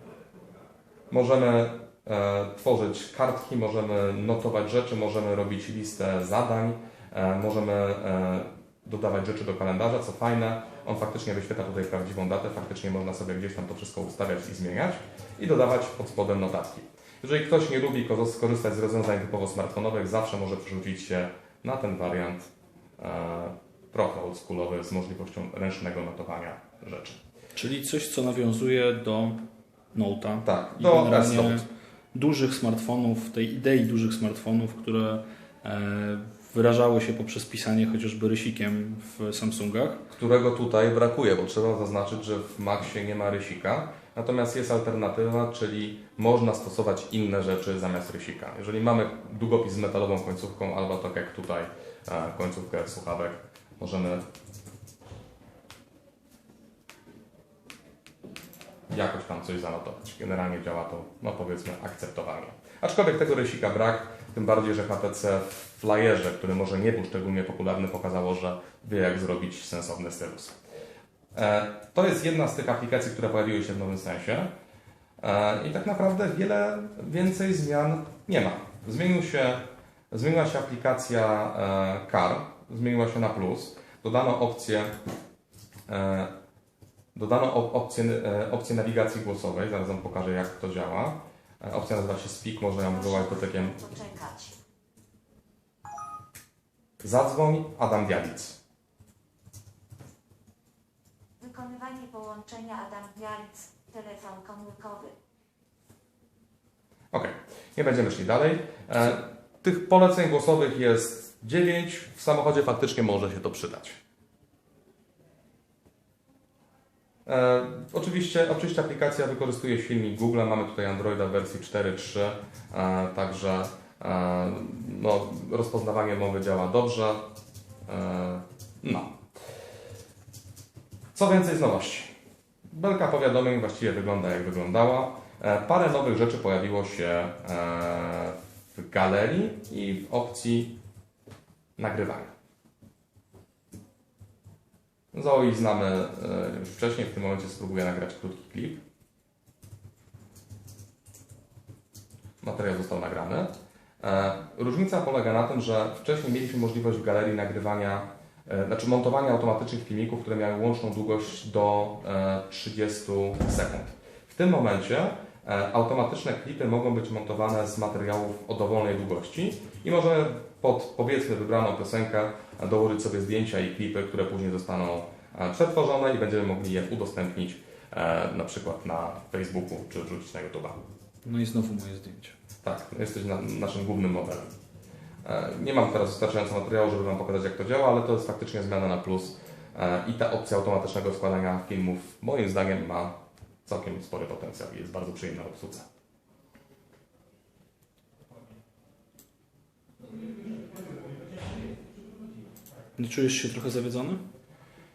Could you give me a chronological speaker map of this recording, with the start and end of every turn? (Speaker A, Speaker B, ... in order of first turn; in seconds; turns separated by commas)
Speaker A: 1.1-22.5, Speaker A: 23.0-27.2, Speaker B: 27.6-29.4, Speaker B: 29.9-40.0, Speaker A: 30.4-31.7, Speaker A: 40.1-54.2, Speaker A: 58.9-70.5, Speaker A: 71.3-74.5, Speaker A: 75.2-84.9, Speaker A: 85.9-86.3, Speaker A: 87.2-94.0, Speaker C: 93.2-94.6, Speaker A: 97.0-98.6, Speaker C: 101.4-105.2, Speaker A: 107.1-114.0, Speaker A: 117.3-127.3, Speaker A: 127.9-129.2, Speaker A: 131.2-132.1, Speaker A: 132.7-140.8, Speaker A: 141.8-142.3, Speaker A: 145.1-148.8, Speaker A: 152.4-153.5, Speaker A: 154.0-180.8, Speaker B: 181.2-182.4, Speaker A: 182.6-184.5, Speaker A: 185.2-193.1, Speaker A: 193.7-195.8, Speaker B: 203.0-204.2